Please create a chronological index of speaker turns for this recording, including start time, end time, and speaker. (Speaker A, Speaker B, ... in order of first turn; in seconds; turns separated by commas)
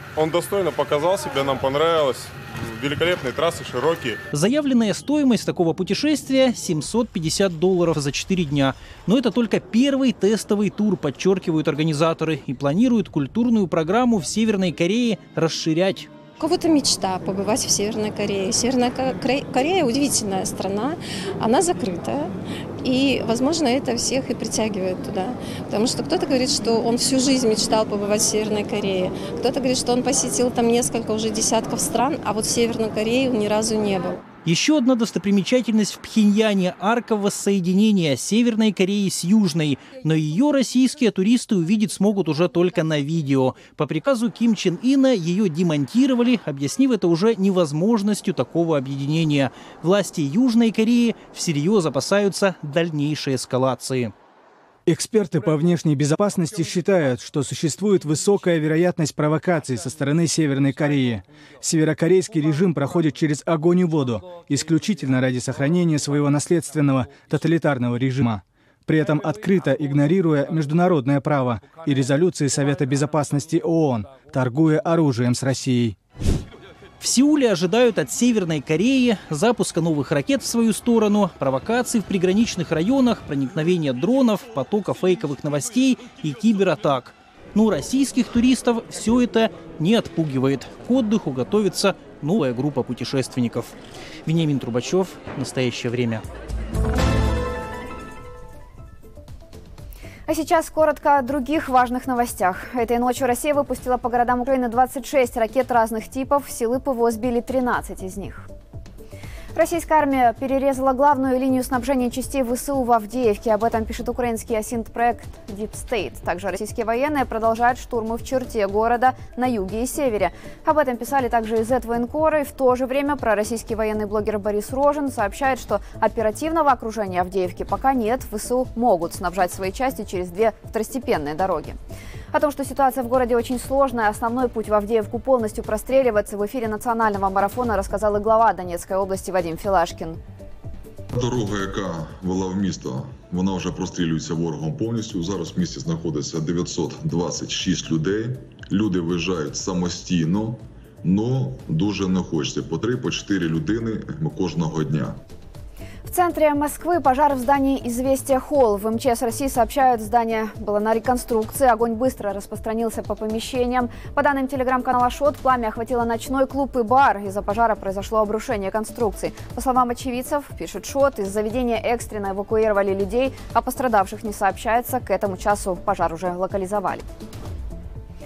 Speaker A: 0.1-4.2, Speaker B: 4.3-16.1, Speaker C: 16.4-34.2, Speaker B: 34.4-54.1, Speaker D: 54.9-76.0, Speaker B: 77.0-93.7, Speaker B: 94.3-96.2, Speaker E: 100.3-108.5, Speaker E: 109.5-131.8, Speaker E: 132.3-140.2, Speaker F: 141.1-155.2, Speaker E: 156.1-177.0